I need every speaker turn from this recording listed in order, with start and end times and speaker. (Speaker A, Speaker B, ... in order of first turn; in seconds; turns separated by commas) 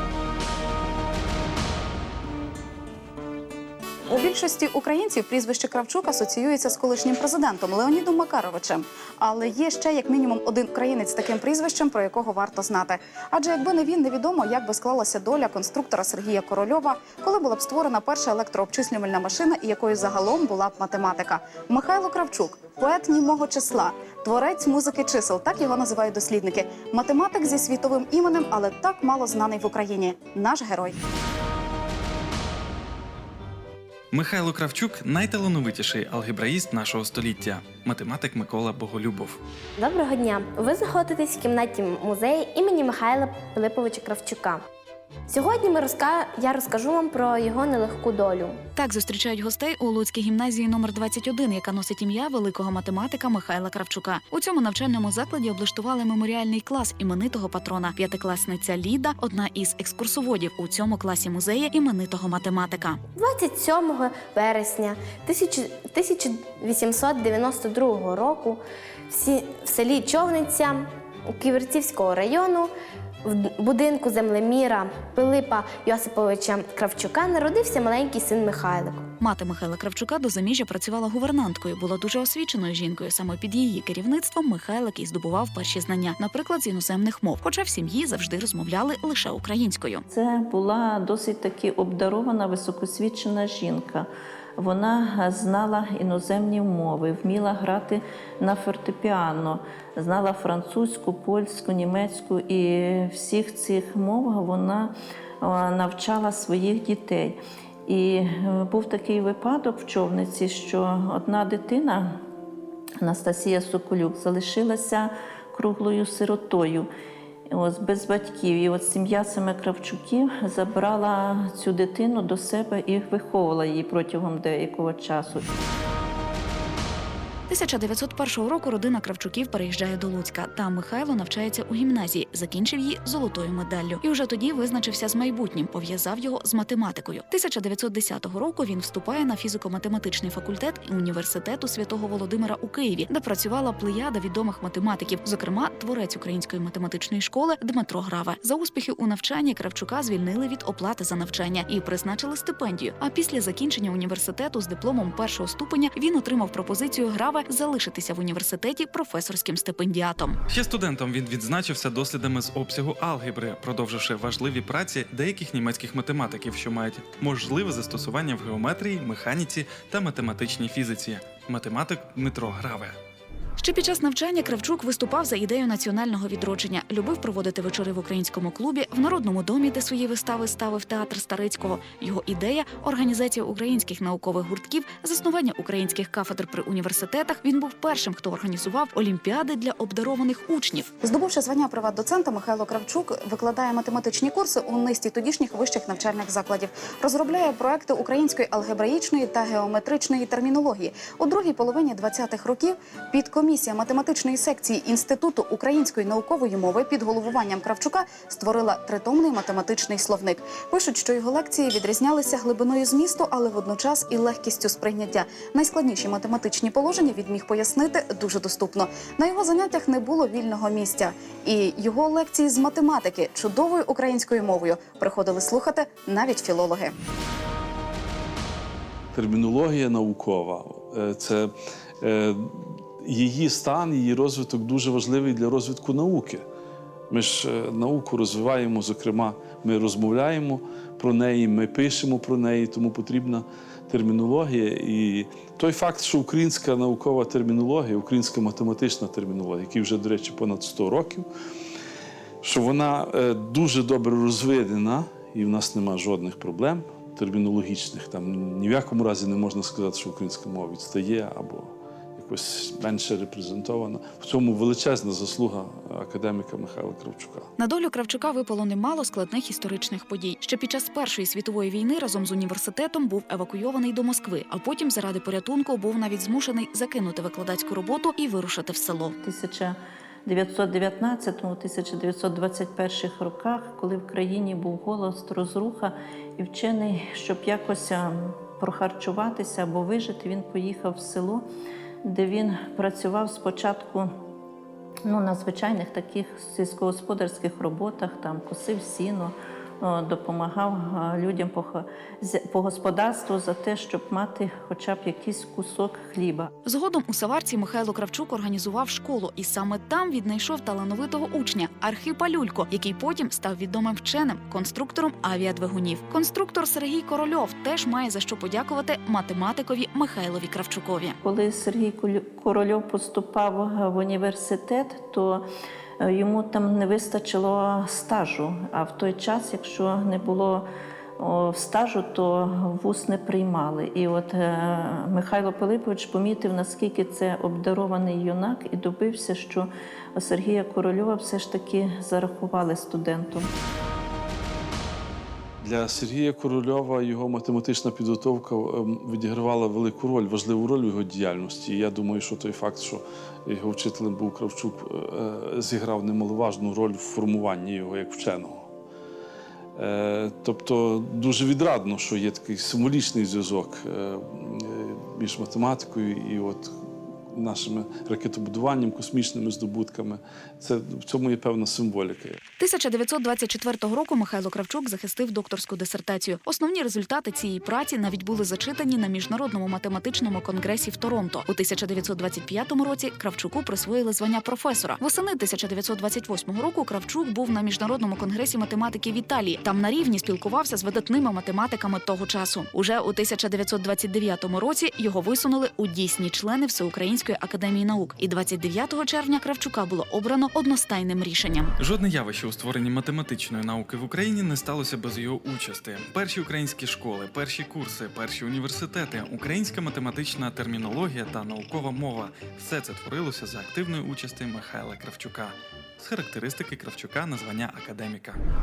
Speaker A: 4.1-30.9, Speaker B: 34.1-39.4, Speaker C: 39.8-44.6, Speaker C: 45.3-48.6, Speaker D: 48.7-63.0, Speaker C: 63.1-72.7, Speaker C: 73.2-79.1, Speaker D: 79.2-90.0, Speaker E: 90.1-94.1, Speaker E: 94.6-112.2, Speaker E: 113.0-116.9, Speaker E: 117.5-125.5, Speaker D: 127.5-160.4, Speaker B: 160.5-172.9, Speaker D: 173.6-190.9, Speaker A: 191.0-226.9, Speaker F: 229.1-236.4, Speaker F: 237.1-251.3, Speaker F: 252.4-267.5, Speaker D: 267.6-279.1, Speaker E: 279.2-291.4, Speaker E: 292.0-294.1, Speaker E: 295.1-306.5, Speaker D: 306.6-321.1, Speaker E: 321.2-325.4, Speaker E: 326.0-330.6, Speaker E: 331.2-343.5, Speaker F: 345.6-358.7, Speaker F: 359.8-366.7, Speaker F: 367.3-372.4, Speaker D: 372.6-401.7, Speaker B: 401.8-418.4